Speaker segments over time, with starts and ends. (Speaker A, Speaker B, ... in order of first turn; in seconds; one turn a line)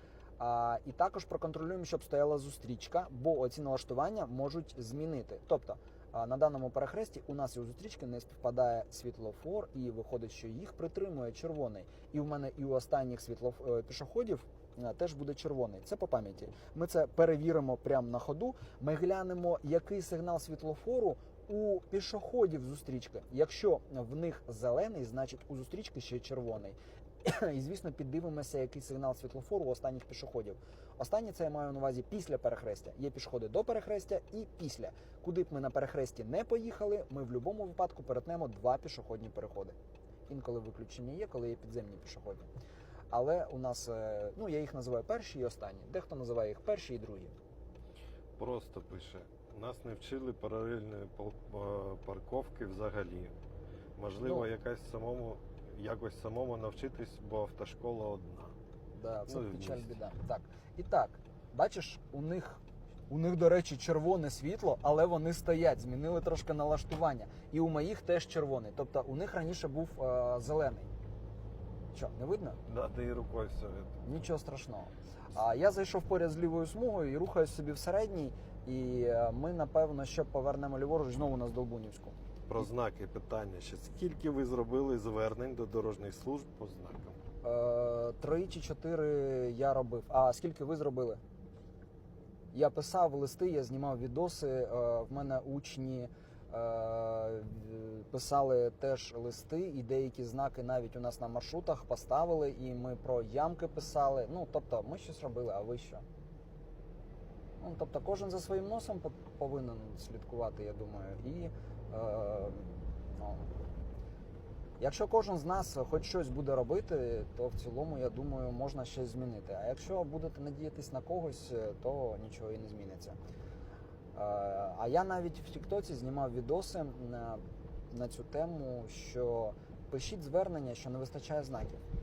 Speaker A: 0.4-39.8
Speaker A: 40.3-42.5
Speaker A: 43.1-47.3
Speaker B: 48.4-53.3
Speaker B: 54.0-58.5
Speaker A: 58.9-70.9
Speaker B: 59.3-60.0
Speaker A: 71.9-72.6
Speaker B: 72.6-74.0
Speaker A: 74.0-82.6
Speaker B: 82.5-87.2
Speaker A: 87.4-91.2
Speaker A: 92.5-106.0
Speaker A: 107.6-113.5
Speaker A: 114.8-123.2
Speaker A: 124.1-131.8